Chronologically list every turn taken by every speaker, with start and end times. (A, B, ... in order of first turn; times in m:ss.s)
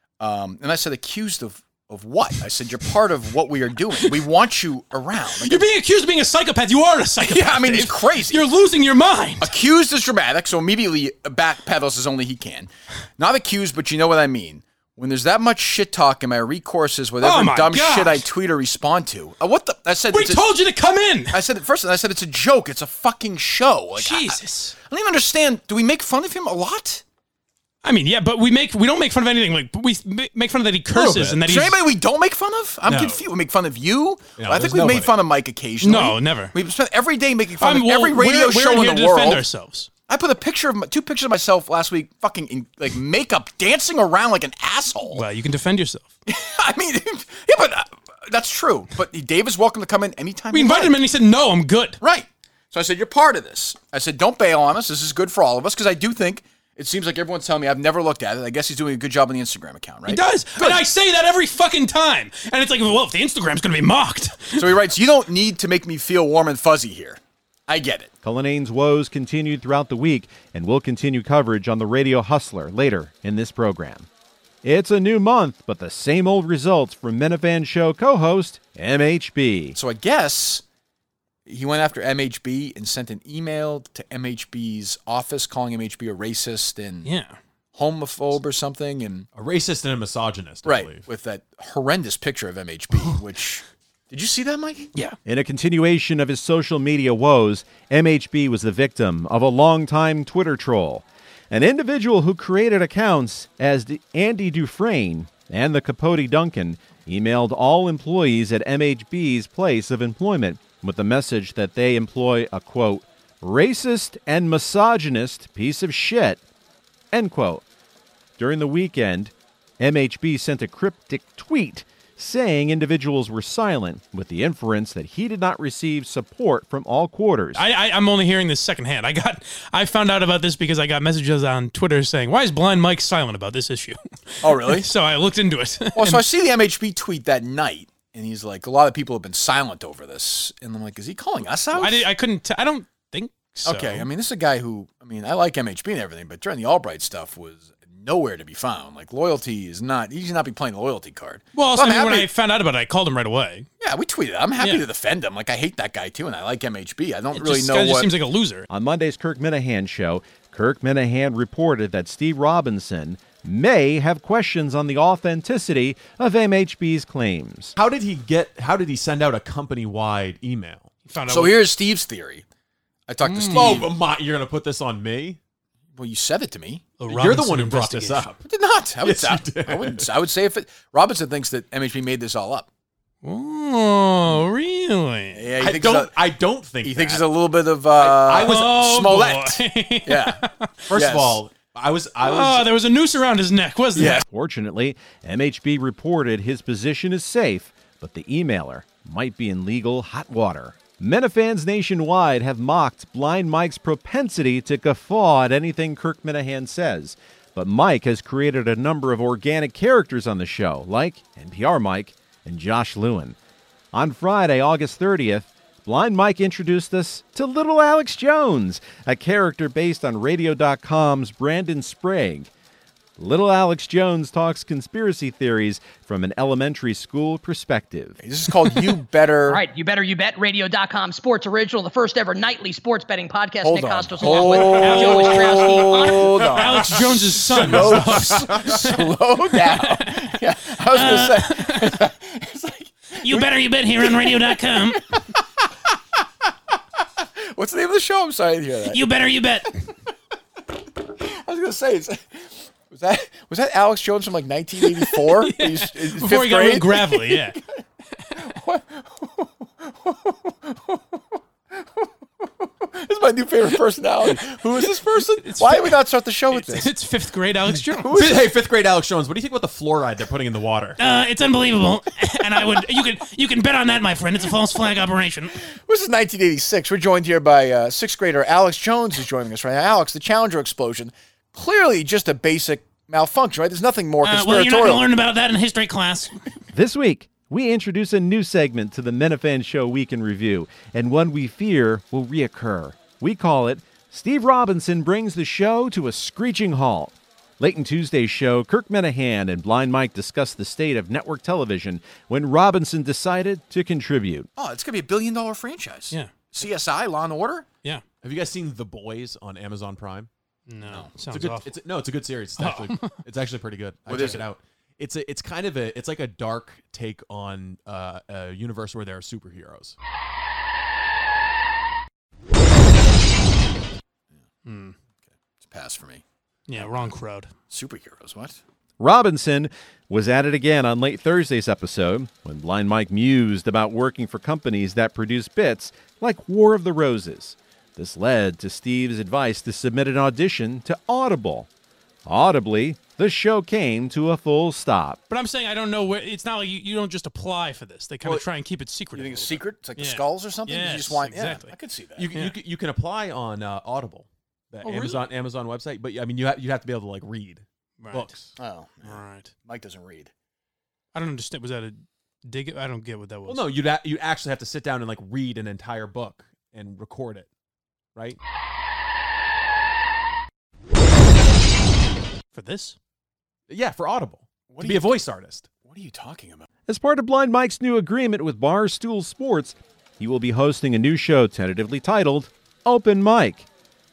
0:00.2-0:05.7 A
0:05.3-0:09.5 B
0:07.2-0:08.5 A
0:09.4-0:20.5 A
0:17.2-0:18.2 B
0:20.1-0:21.4 B
0:21.3-0:27.0 A
0:24.0-0:24.7 B
0:27.8-0:31.8 B
0:30.9-0:31.5 C
0:31.5-0:39.5 A
0:32.9-0:33.2 C
0:34.3-0:35.2 C
0:35.8-0:36.5 B
0:37.6-0:39.9 B
0:40.1-0:45.2 A
0:45.1-0:46.0 B
0:46.2-0:50.9 A
0:50.5-0:52.0 B
0:52.0-1:00.8 A
1:00.1-1:04.7 B
1:04.5-1:08.1 A
1:08.2-1:14.1 D
1:14.6-1:19.8 D
1:19.7-1:20.6 A
1:21.5-1:27.1 A
1:27.0-1:27.4 B
1:27.7-1:29.3 A
1:29.3-1:31.0 C
1:30.6-1:34.9 A
1:35.2-1:56.4 D
1:57.1-1:57.6 D
1:58.4-2:07.6 D
2:07.5-2:16.2 B
2:14.4-2:14.9 A
2:16.0-2:22.1 A
2:21.7-2:24.1 B
2:23.6-2:32.3 A
2:31.5-2:33.7 B
2:33.8-2:38.1 A
2:37.3-2:38.7 B
2:38.7-2:47.7 D
2:47.8-2:50.9 C
2:51.0-2:51.6 B
2:51.3-2:52.4 A
2:53.1-2:53.9 A
2:53.2-2:53.8 B
2:53.5-2:55.4 C
2:56.0-2:57.0 A
2:57.0-2:58.3 B
2:57.0-2:58.4 C
2:58.4-3:02.7 A
2:59.0-3:00.0 C
3:03.2-3:05.5 B
3:05.3-3:10.4 A
3:05.6-3:07.2 C
3:08.0-3:08.8 C
3:08.4-3:10.7 B
3:10.8-3:12.7 C
3:10.9-3:11.4 A
3:12.2-3:14.2 B
3:14.0-3:14.2 A
3:14.2-3:33.4 D
3:33.9-3:42.5 D
3:43.2-3:48.2 D
3:48.2-3:49.6 A
3:49.5-3:56.8 E
3:53.6-4:04.4 A
3:54.6-4:02.0 B
3:57.6-3:58.6 C
4:03.2-4:05.0 B
4:04.9-4:05.4 A
4:07.0-4:09.0 A
4:08.9-4:09.9 B
4:11.0-4:17.8 A
4:15.0-4:17.6 B
4:18.2-4:18.4 B
4:18.4-4:26.9 A
4:25.4-4:26.0 B
4:26.5-4:28.1 B
4:27.7-4:28.5 A
4:28.2-4:31.0 C
4:31.0-4:35.6 B
4:35.6-4:45.0 A
4:44.2-4:46.4 B
4:46.7-5:04.5 D
5:04.6-5:07.7 A
5:08.2-5:10.3 C
5:10.7-5:11.7 B
5:10.8-5:11.2 A
5:11.2-5:20.0 C
5:12.6-5:13.2 B
5:14.0-5:14.4 A
5:24.6-5:24.9 B
5:25.6-5:27.1 A
5:26.7-5:27.5 B
5:27.7-5:28.6 A
5:29.0-5:41.7 D
5:42.2-5:45.2 D
5:45.3-5:51.7 B
5:49.1-5:52.3 A
5:52.2-5:58.5 C
5:52.3-5:52.6 B
5:54.8-5:55.3 B
5:58.0-5:58.4 B
5:58.5-6:00.3 A
5:59.0-5:59.5 B
6:01.1-6:03.7 B
6:03.4-6:07.5 C
6:12.5-6:13.0 B
6:13.7-6:15.7 C
6:14.7-6:15.2 A
6:15.8-6:16.7 A
6:16.9-6:23.7 D